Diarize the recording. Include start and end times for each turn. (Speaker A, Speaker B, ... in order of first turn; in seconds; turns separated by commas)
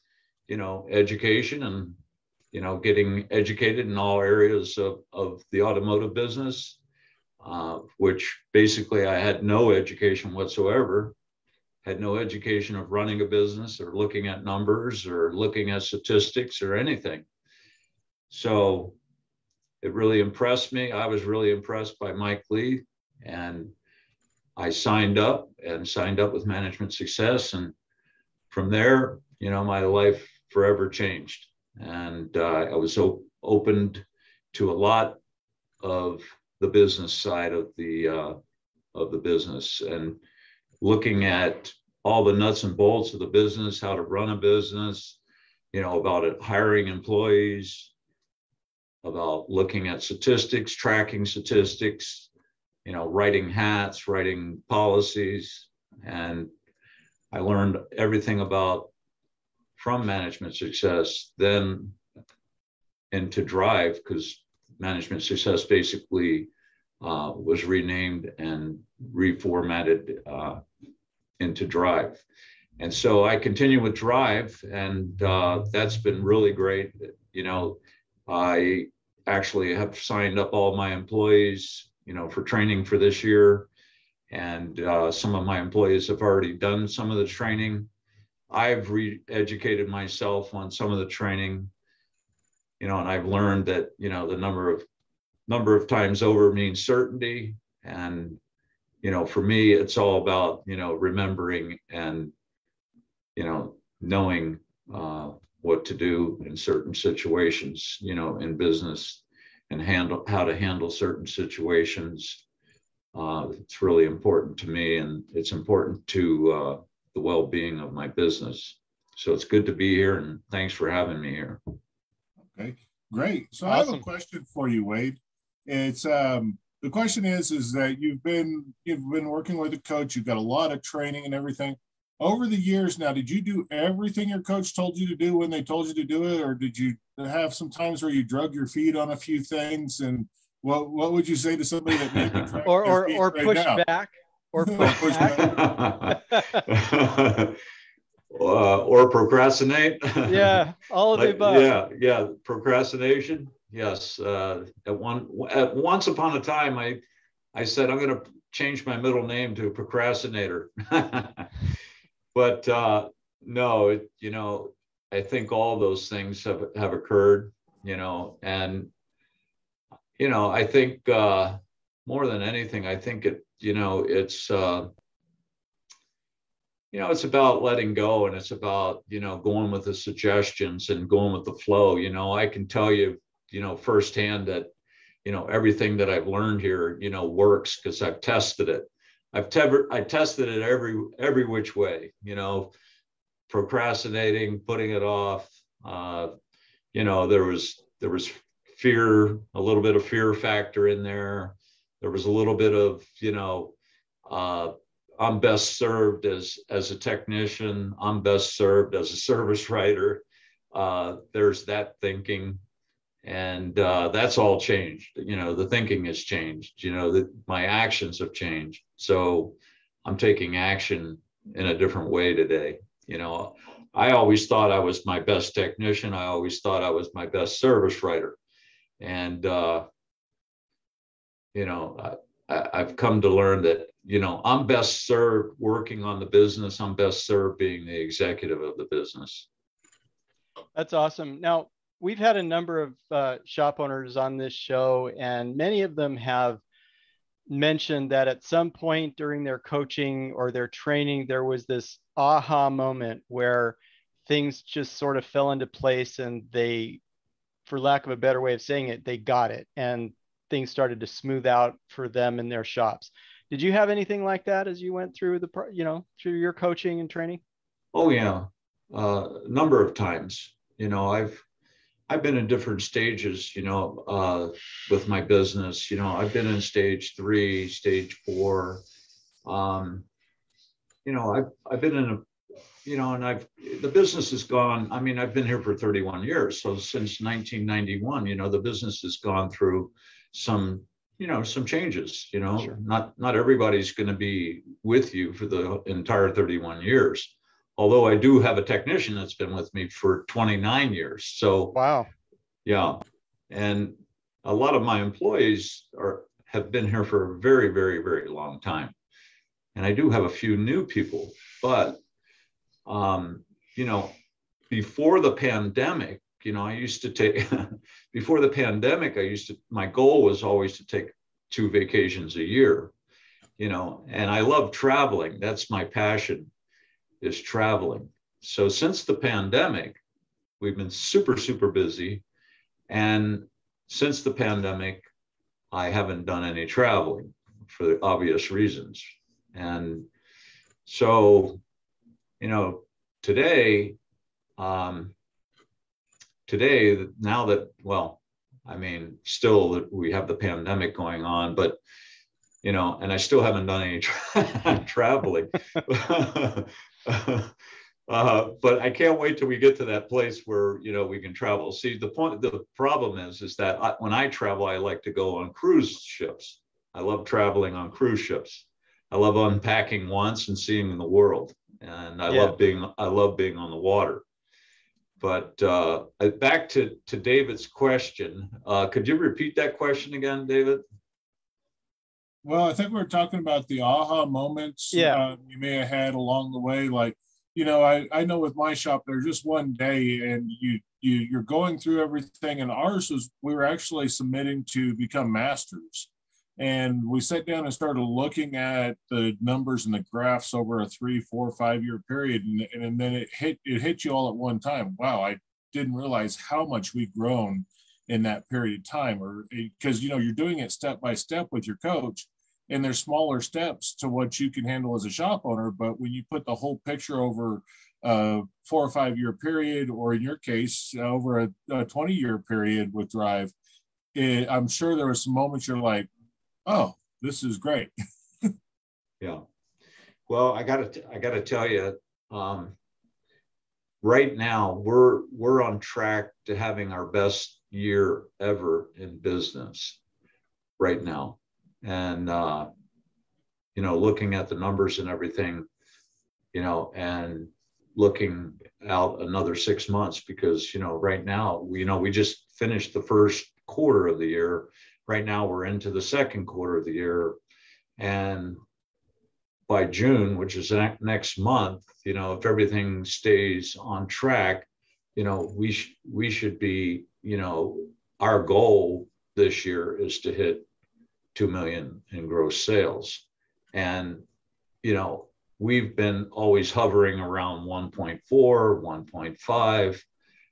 Speaker A: 0.5-2.0, Speaker A: 2.5-6.8, Speaker A: 7.4-11.2, Speaker A: 11.8-17.3, Speaker A: 18.3-19.0, Speaker A: 19.8-23.7, Speaker A: 24.6-27.7, Speaker A: 28.5-35.2, Speaker A: 35.8-38.4, Speaker A: 38.9-40.2, Speaker A: 40.8-45.2, Speaker A: 45.7-47.9, Speaker A: 49.0-52.3, Speaker A: 52.9-56.5, Speaker A: 57.3-58.9, Speaker A: 59.8-62.0, Speaker A: 63.1-66.5, Speaker A: 67.0-70.6, Speaker A: 71.4-72.2, Speaker A: 72.8-83.7, Speaker A: 84.3-87.9, Speaker A: 88.5-91.7, Speaker A: 92.8-94.9, Speaker A: 95.5-98.4, Speaker A: 99.0-102.3, Speaker A: 103.3-112.4, Speaker A: 113.1-121.6, Speaker B: 122.5-143.8, Speaker C: 123.7-124.1, Speaker A: 142.2-142.6, Speaker C: 142.7-146.6, Speaker B: 144.6-145.7, Speaker A: 145.2-147.6, Speaker A: 148.3-150.6, Speaker C: 150.3-151.8, Speaker A: 151.1-157.0, Speaker A: 157.5-161.6, Speaker A: 162.3-168.9, Speaker A: 170.2-174.9, Speaker A: 176.9-184.7, Speaker A: 185.2-192.7, Speaker A: 193.5-196.3, Speaker A: 196.9-212.6, Speaker A: 213.2-228.4, Speaker A: 229.0-229.9, Speaker A: 231.5-239.5, Speaker C: 240.8-246.6, Speaker C: 247.5-257.0, Speaker C: 257.7-267.4, Speaker A: 267.9-271.4, Speaker A: 272.1-278.8, Speaker A: 279.4-280.1, Speaker A: 281.1-282.2, Speaker A: 282.8-301.8, Speaker C: 301.8-302.1, Speaker A: 302.6-308.9, Speaker A: 309.8-312.0, Speaker A: 312.9-314.1, Speaker A: 314.7-322.9, Speaker A: 323.6-326.5, Speaker A: 327.2-330.0, Speaker A: 330.6-332.2, Speaker A: 332.9-335.1, Speaker A: 335.7-340.1, Speaker A: 340.9-341.6, Speaker A: 342.4-344.0, Speaker A: 344.6-345.1, Speaker A: 346.5-351.8, Speaker A: 352.6-357.5, Speaker A: 358.1-374.2, Speaker C: 372.3-372.6, Speaker A: 375.2-380.8, Speaker B: 382.4-423.5, Speaker C: 384.9-385.2, Speaker B: 424.1-426.1, Speaker B: 426.7-427.9, Speaker A: 430.3-432.8, Speaker A: 434.0-440.0, Speaker A: 440.8-442.7, Speaker A: 443.8-445.7, Speaker A: 446.5-457.4, Speaker A: 458.0-458.6, Speaker A: 459.7-470.7, Speaker A: 471.4-474.2, Speaker A: 474.8-480.0